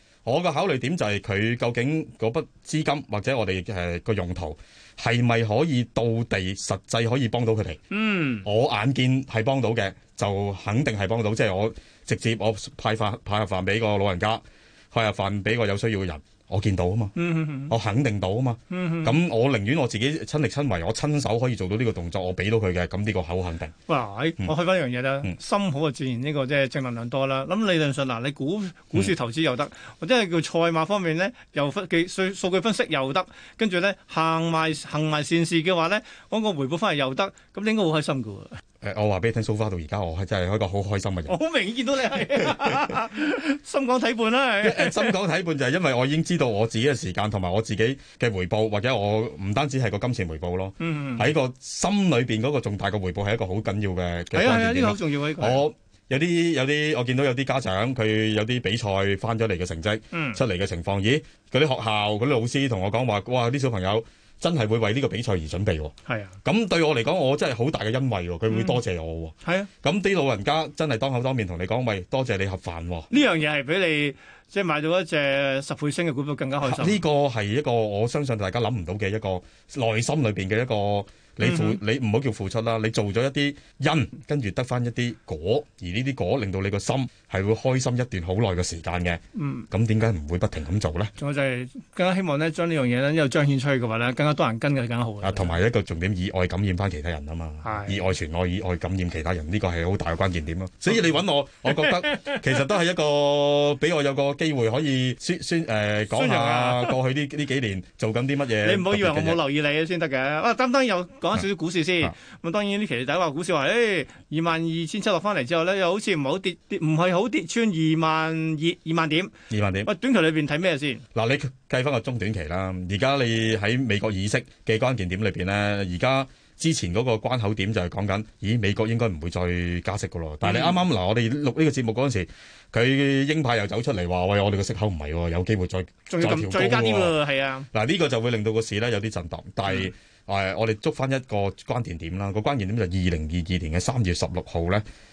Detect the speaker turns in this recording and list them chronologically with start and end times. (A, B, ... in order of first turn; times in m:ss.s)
0:00.3-0:07.8 A
0:07.9-0:08.5 B
0:08.4-0:17.2 A
0:17.2-0:17.8 B
0:17.7-0:23.7 A
0:18.7-0:19.2 B
0:23.9-0:38.6 B
0:38.8-0:41.4 A
0:41.3-0:45.2 B
0:44.6-1:13.1 A
0:50.8-0:51.3 B
0:54.3-0:55.6 B
1:00.1-1:00.4 B
1:06.1-1:06.4 B
1:08.5-1:08.8 B
1:09.4-1:09.7 B
1:13.1-1:17.0 B
1:16.6-1:29.2 A
1:21.4-1:21.8 B
1:29.4-1:29.7 B
1:29.7-1:31.1 A
1:31.2-1:35.6 B
1:35.2-1:49.4 A
1:37.6-1:38.0 B
1:41.7-1:42.4 B
1:46.1-1:47.0 B
1:48.6-1:59.3 B
1:59.5-1:59.9 A
1:59.8-2:01.0 B
2:01.2-2:17.2 A
2:10.4-2:10.8 B
2:16.1-2:17.7 B
2:17.7-2:24.8 A